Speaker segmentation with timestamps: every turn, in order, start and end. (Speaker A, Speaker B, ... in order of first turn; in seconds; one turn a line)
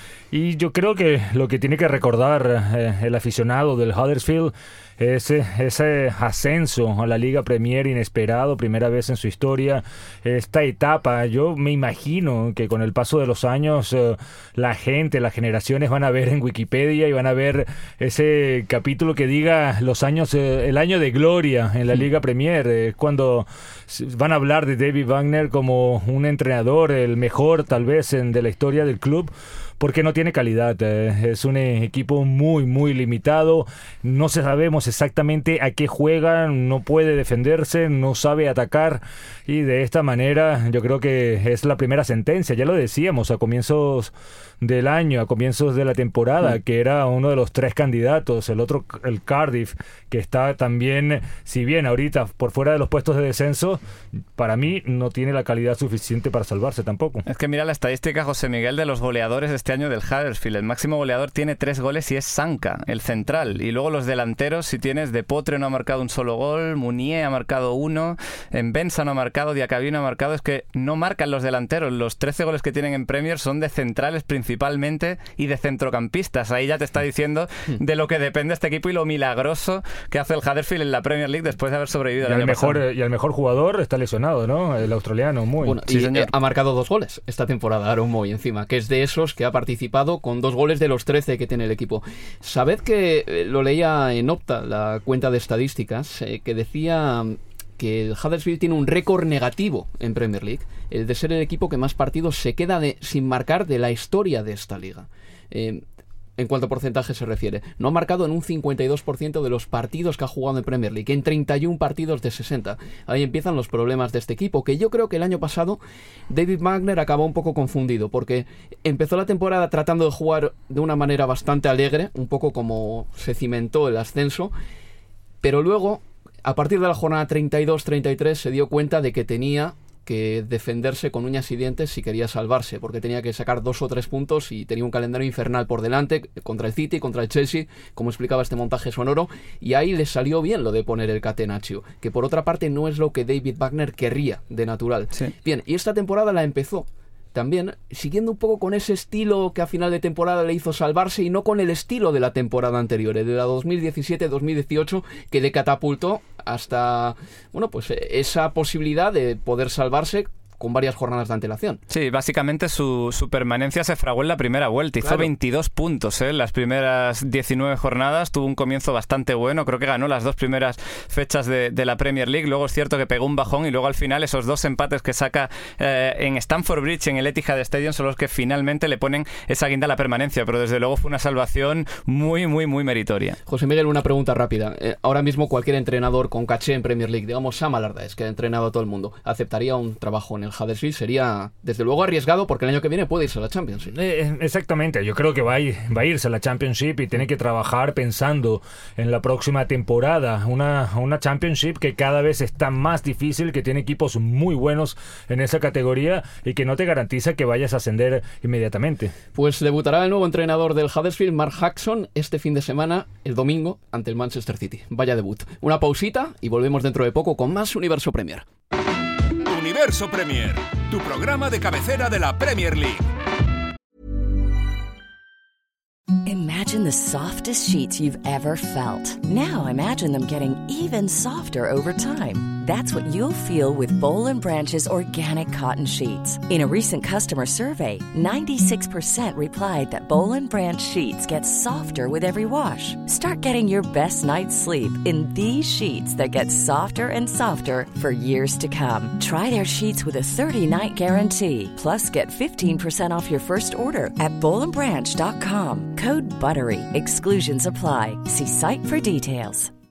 Speaker A: 0.3-53.8
Speaker A: 54.4-57.2
Speaker B: 57.2-82.8
Speaker A: 82.2-85.8
Speaker C: 85.6-105.8
Speaker B: 85.9-86.3
Speaker C: 106.4-124.5
Speaker C: 125.4-161.8
Speaker B: 161.9-183.4
Speaker C: 165.0-165.3
Speaker C: 183.5-193.9
Speaker A: 193.9-209.1
Speaker C: 209.3-218.4
Speaker D: 219.4-223.1
Speaker E: 226.2-259.7